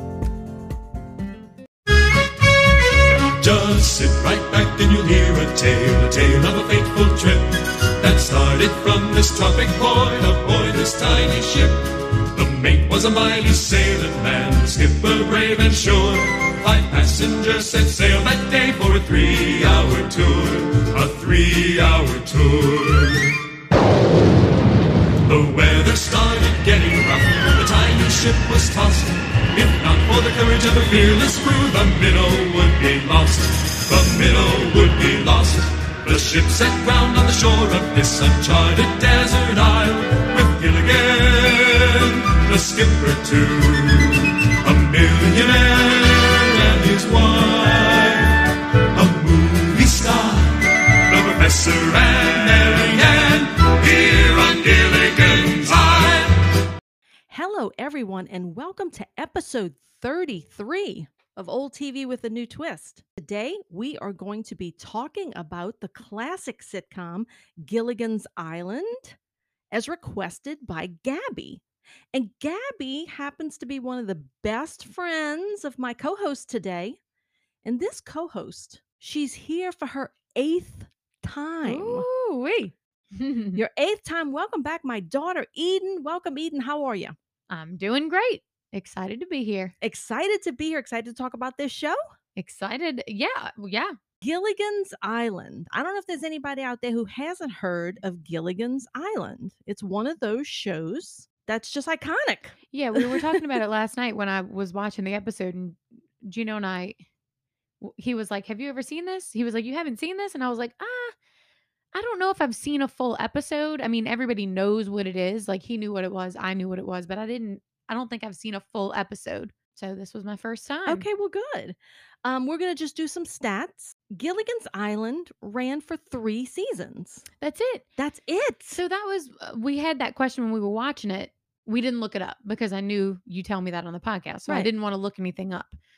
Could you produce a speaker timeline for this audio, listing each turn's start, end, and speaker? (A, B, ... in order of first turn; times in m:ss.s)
0:02.4-0:23.4 A
0:25.2-0:56.4 A
0:57.3-1:09.2 B
1:09.7-1:11.6 B
1:12.1-1:17.0 B
1:17.6-1:22.0 B
1:21.6-1:23.6 C
1:23.5-1:27.1 B
1:27.5-1:29.7 C
1:29.8-1:32.0 B
1:32.4-1:33.9 C
1:34.2-1:43.3 B
1:42.7-1:47.0 C
1:47.8-1:51.1 C
1:51.9-2:01.0 C
2:00.8-2:07.2 B
2:07.4-2:07.8 C
2:08.0-2:08.8 B
2:08.7-2:15.8 C